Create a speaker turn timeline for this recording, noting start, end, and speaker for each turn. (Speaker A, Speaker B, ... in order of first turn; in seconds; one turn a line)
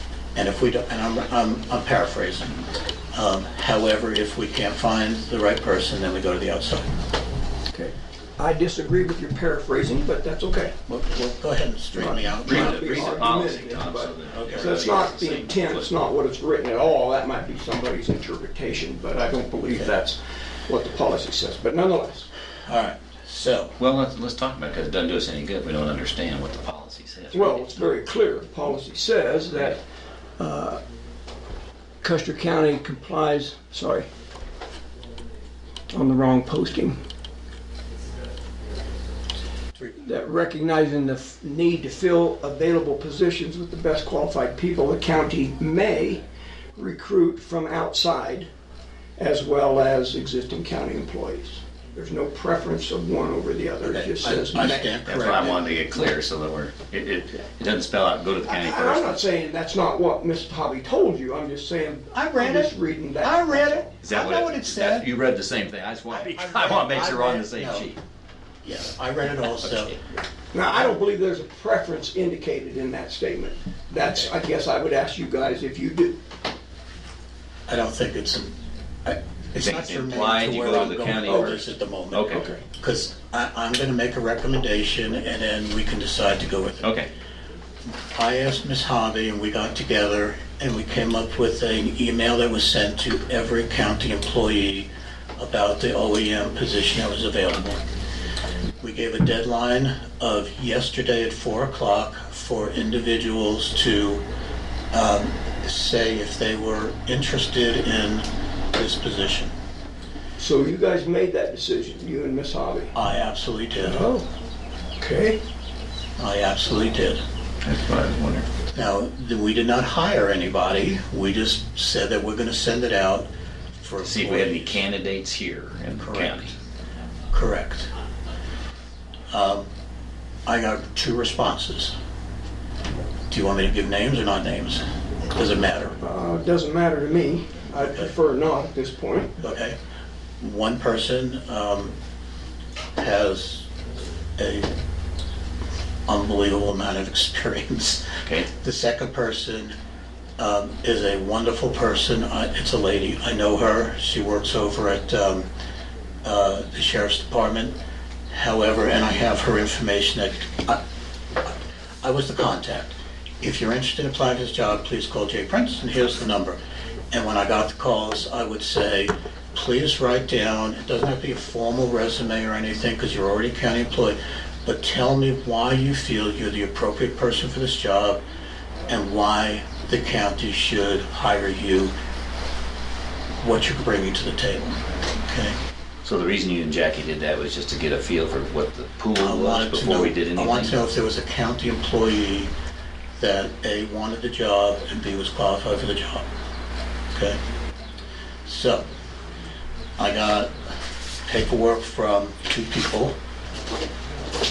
Speaker A: 0.3-2.6
Speaker A: 3.1-6.9
Speaker B: 7.7-10.8
Speaker A: 10.9-13.3
Speaker B: 11.9-22.3
Speaker C: 12.5-15.9
Speaker A: 22.7-23.8
Speaker C: 23.8-27.9
Speaker B: 27.3-29.8
Speaker B: 30.4-30.8
Speaker B: 32.0-34.1
Speaker B: 35.9-37.0
Speaker A: 39.8-40.0
Speaker B: 40.0-46.2
Speaker B: 46.8-48.5
Speaker B: 49.2-55.7
Speaker A: 53.8-55.6
Speaker C: 55.0-59.2
Speaker B: 58.4-63.9
Speaker A: 62.1-65.1
Speaker C: 64.0-68.0
Speaker A: 66.1-67.9
Speaker A: 68.6-70.0
Speaker C: 69.5-70.0
Speaker B: 70.5-76.2
Speaker A: 77.7-86.9
Speaker C: 79.6-82.5
Speaker B: 81.3-81.6
Speaker B: 82.3-82.6
Speaker C: 86.8-87.1
Speaker A: 88.1-97.8
Speaker A: 98.8-104.2
Speaker A: 104.9-109.5
Speaker B: 110.4-112.9
Speaker A: 112.9-114.1
Speaker B: 113.8-114.3
Speaker B: 115.0-115.4
Speaker A: 116.2-117.2
Speaker C: 117.6-118.5
Speaker A: 118.7-123.3
Speaker A: 123.8-124.8
Speaker C: 124.0-126.5
Speaker A: 126.0-126.5
Speaker A: 127.3-127.9
Speaker A: 129.3-129.7
Speaker A: 130.5-131.9
Speaker A: 133.3-136.0
Speaker B: 136.0-139.5
Speaker A: 137.8-138.1
Speaker A: 139.4-139.8
Speaker A: 140.4-141.9
Speaker A: 143.0-143.7
Speaker A: 144.4-144.7
Speaker A: 146.1-149.8
Speaker A: 150.4-155.5
Speaker A: 156.2-157.8
Speaker A: 158.3-160.8
Speaker A: 162.0-166.6
Speaker A: 167.1-178.2
Speaker A: 178.9-181.9
Speaker A: 183.4-185.6
Speaker C: 186.0-190.8
Speaker A: 189.2-192.5
Speaker A: 193.2-196.2
Speaker A: 197.1-197.4
Speaker A: 198.5-198.8
Speaker A: 200.0-200.5
Speaker A: 201.2-203.2